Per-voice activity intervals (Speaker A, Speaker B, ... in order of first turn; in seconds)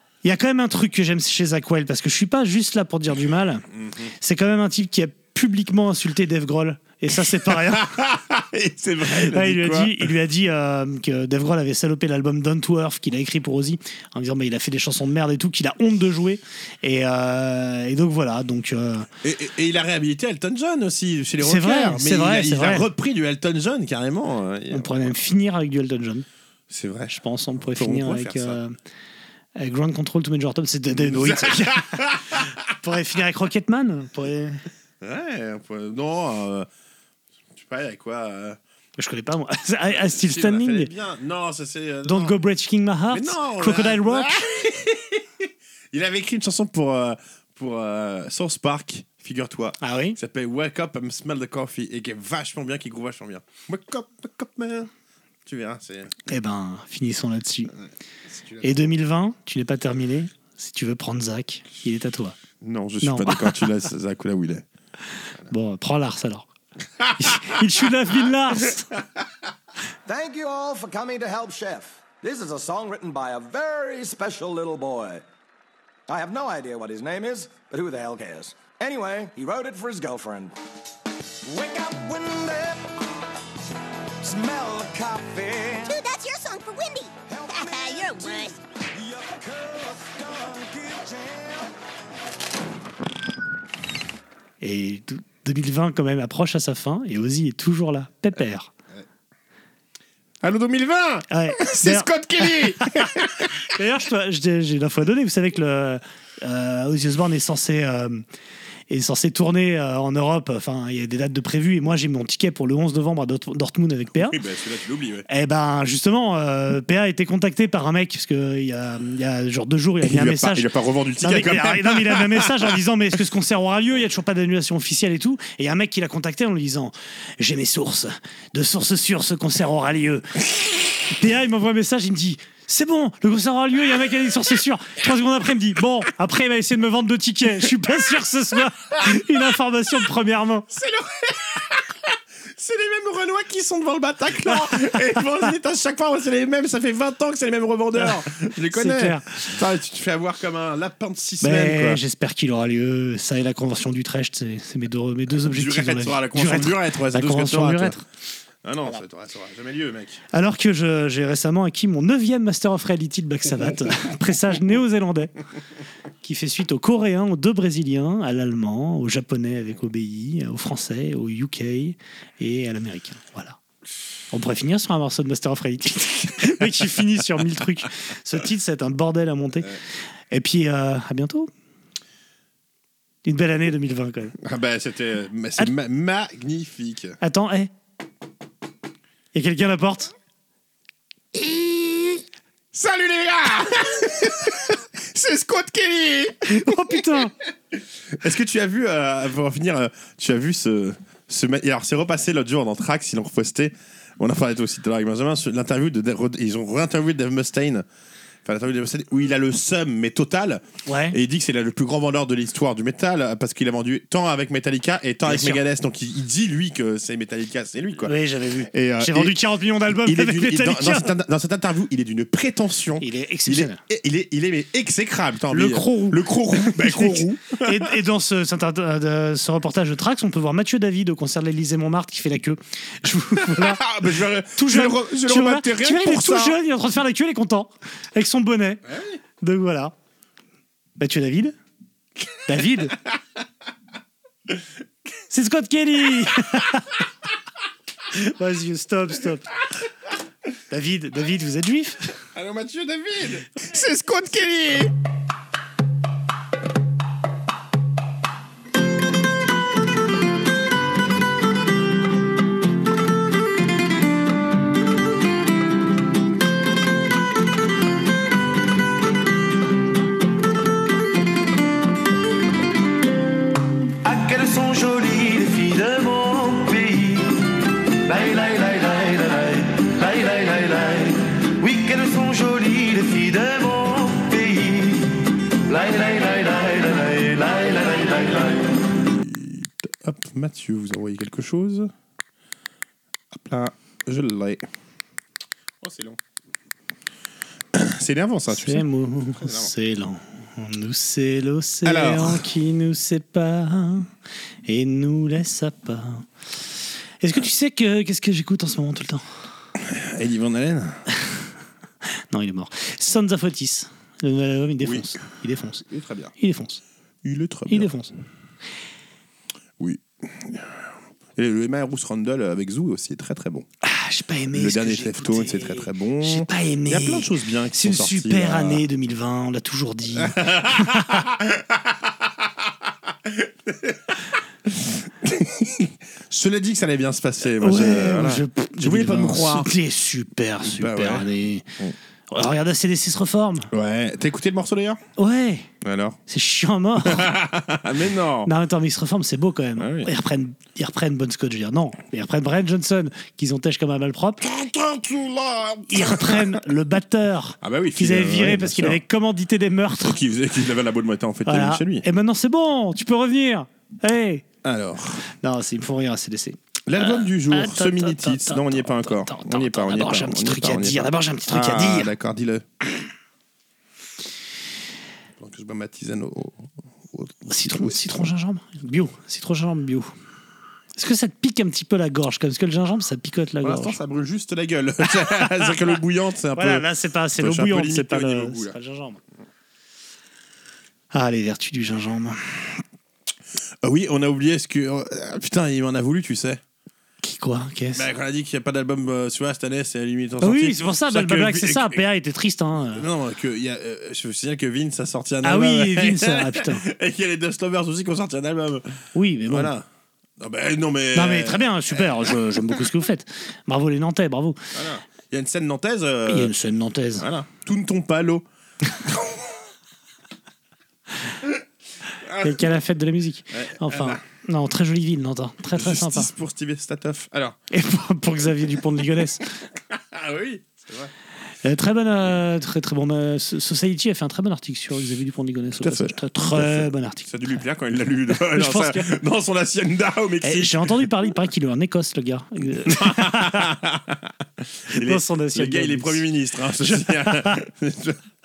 Speaker A: 0.2-3.6, 4.2-7.9, 9.1-19.1, 21.4-22.9, 24.7-26.3, 27.1-28.8, 29.6-32.2, 32.8-34.6, 39.0-40.9, 42.0-44.4, 49.8-50.2, 56.3-57.7, 58.6-62.4, 63.0-63.6, 65.5-66.5, 67.2-69.0, 94.6-98.7, 101.3-103.1, 103.6-108.2, 108.9-114.4, 115.3-120.7, 121.2-130.4, 131.0-140.7, 148.7-149.4, 151.4-158.0, 160.3-165.3, 166.2-173.6, 174.3-179.8, 180.3-181.5, 183.2-184.4, 187.2-187.7, 189.3-190.1, 191.4-192.2, 196.5-197.3, 210.9-211.2, 215.2-215.6, 218.1-221.1, 223.0-223.8, 225.5-233.8, 234.5-238.8, 239.4-239.9, 241.0-241.5, 242.4-243.0, 245.3-247.0, 248.1-249.6, 250.7-252.2, 298.5-304.1, 304.7-306.3, 307.2-309.2, 312.3-315.9, 316.4-316.8, 317.7-318.1, 323.8-331.3, 337.6-341.7, 342.3-343.7, 345.2-345.7, 346.3-347.3, 348.4-354.4, 355.9-360.2, 361.5-364.4, 365.4-372.1, 377.5-380.1, 381.0-384.0, 386.6-389.2, 391.1-392.8, 397.2-398.0, 400.4-403.1, 405.4-406.9, 409.1-409.8, 411.1-414.6, 416.3-417.3, 422.4-426.3, 427.7-429.5, 431.6-437.3, 438.5-439.1, 440.4-443.8, 444.9-446.2, 446.8-447.6
Speaker B: 7.3-10.1, 19.2-25.2, 26.7-28.6, 30.9-32.5, 35.0-36.7, 37.5-38.6, 39.9-42.4, 43.1-54.9, 55.5-56.1, 57.7-58.9, 62.6-64.7, 67.0-67.6, 100.4-103.7, 114.2-115.3, 120.0-122.7, 140.7-152.0, 155.3-158.0, 158.6-160.2, 184.4-187.2, 192.7-197.3, 198.1-207.9, 208.4-218.2, 218.7-227.9, 233.3-236.6, 238.9-239.2, 252.3-254.9, 288.9-291.9, 293.3-294.7, 295.8-296.2, 297.7-299.7, 301.9-302.4, 309.8-311.0, 314.8-315.1, 315.9-316.3, 317.2-317.9, 319.8-323.7, 324.5-328.8, 330.2-339.7, 340.6-341.3, 343.7-345.0, 345.8-346.2, 347.0-348.5, 349.8-350.1, 354.4-356.6, 357.6-359.0, 360.0-362.1, 364.6-365.2, 366.9-372.7, 375.4-378.3, 383.6-388.8, 393.8-396.6, 397.9-402.0, 402.9-408.9, 409.5-409.9, 410.4-412.8, 414.7-416.5, 417.2-418.4, 419.0-419.4, 422.2-422.7, 423.5-424.2, 425.7-427.6, 429.9-431.1, 435.8-441.0, 442.8-444.2, 444.9-448.2
Speaker C: 70.1-75.2, 76.1-80.6, 81.4-82.9, 84.2-86.0, 87.2-91.7
Speaker D: 85.9-88.6
Speaker E: 274.0-277.5, 278.0-288.8